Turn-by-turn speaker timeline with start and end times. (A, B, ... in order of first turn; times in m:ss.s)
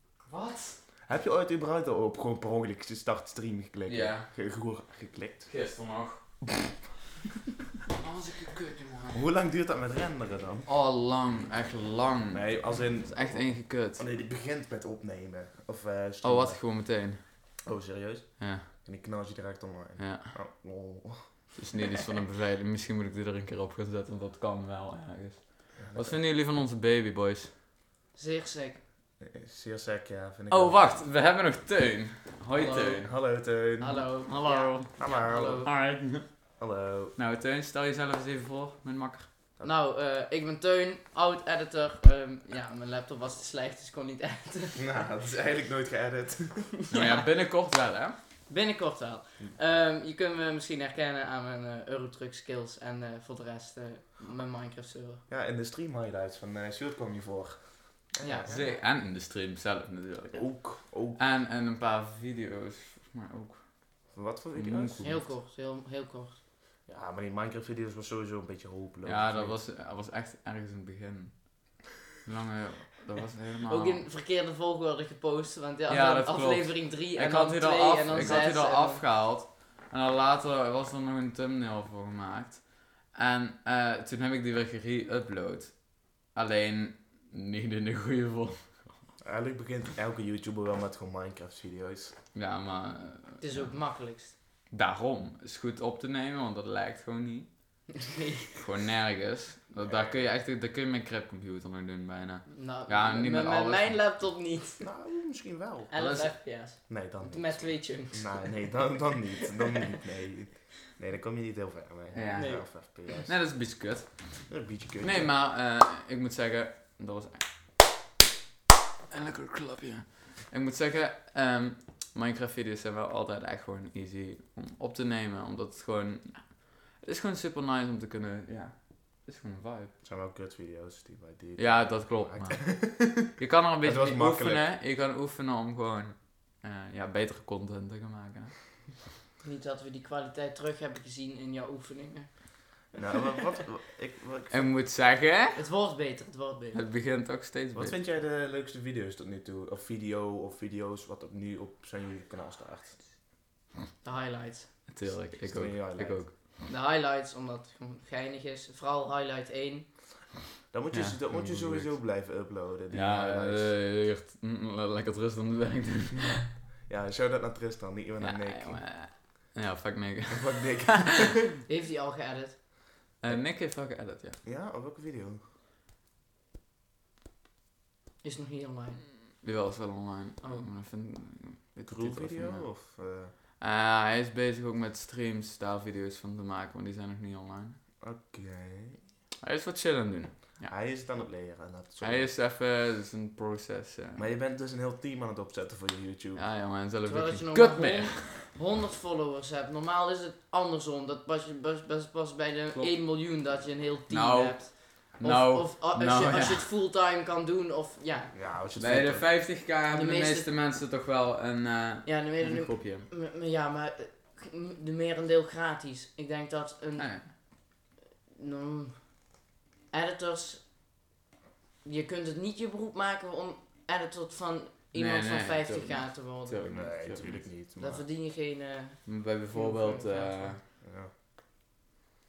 0:00.3-0:00.8 A
0:01.1-0:05.5 B
0:03.9-0:04.3 A
0:05.5-0:06.2 A
0:07.9-0:09.2 A
0:09.1-0:10.7 B
0:10.7-0:14.0 A
0:12.3-0:16.6 B
0:16.2-0:17.2 A
0:17.6-0:21.5 B
0:18.4-0:18.7 A
0:20.0-0:20.3 A
0:21.6-0:27.5 A
0:25.8-0:26.2 B
0:28.1-0:28.8 C
0:29.2-0:31.0 B
0:30.5-0:33.1 A
0:32.6-0:33.2 C
0:33.0-0:34.1 B
0:33.8-0:35.7 C
0:34.2-0:36.4 A
0:35.0-0:35.7 B
0:36.6-0:37.2 B
0:37.2-0:39.3 A
0:39.6-0:45.0 C
0:44.8-0:46.7 B
0:46.9-0:47.3 C
0:46.9-0:48.2 A
0:48.5-0:55.2 C
0:55.3-0:58.7 B
0:58.2-0:58.8 C
0:58.4-1:03.6 A
1:00.3-1:01.2 B
1:04.1-1:05.1 B
1:04.6-1:05.3 A
1:05.0-1:06.4 C
1:06.9-1:09.6 B
1:09.0-1:14.0 A
1:13.6-1:19.0 C
1:15.9-1:28.8 A
1:18.1-1:18.4 B
1:29.2-1:32.2 B
1:32.3-1:33.8 A
1:33.4-1:34.3 C
1:34.7-1:37.5 A
1:37.9-1:38.6 C
1:38.6-1:44.0 A
1:39.8-1:40.3 B
1:42.5-1:44.8 C
1:44.8-1:45.9 B
1:45.9-1:48.7 C
1:45.9-1:46.4 A
1:46.9-1:53.3 B
1:52.1-1:54.4 A
1:52.3-1:52.7 C
1:54.5-1:55.3 B
1:55.0-1:57.5 A
1:59.1-2:09.9 A
2:10.0-2:14.6 B
2:11.6-2:18.6 A
2:19.4-2:22.8 C
2:22.9-2:24.7 B
2:24.5-2:25.6 A
2:25.5-2:26.8 C
2:26.7-2:28.0 A
2:27.7-2:33.0 B
2:34.0-2:34.9 C
2:34.9-2:36.3 A
2:35.0-2:36.2 B
2:36.6-2:40.3 C
2:40.7-2:43.7 B
2:40.9-2:42.0 A
2:42.9-2:46.5 A
2:46.9-2:48.8 B
2:48.2-2:51.4 A
2:50.3-2:51.4 B
2:51.6-2:52.6 C
2:53.2-2:54.4 A
2:54.4-2:55.4 B
2:58.2-2:59.1 C
2:59.4-3:02.7 A
3:00.4-3:00.7 C
3:01.8-3:03.3 B
3:03.6-3:07.8 A
3:08.0-3:09.0 B
3:09.4-3:10.7 A
3:10.7-3:12.3 B
3:12.0-3:14.2 A
3:14.1-3:16.4 B
3:16.4-3:18.4 A
3:17.1-3:28.4 C
3:22.7-3:23.0 A
3:24.1-3:26.7 A
3:28.3-3:29.3 B
3:28.8-3:33.1 A
3:29.9-3:30.5 C
3:32.0-3:37.2 C
3:37.0-3:37.3 A
3:38.3-3:39.3 C
3:39.9-3:40.6 C
3:41.8-3:46.6 C
3:44.9-3:47.5 A
3:46.6-3:48.0 B
3:47.8-3:50.6 C
3:49.0-3:50.6 A
3:50.8-3:51.1 B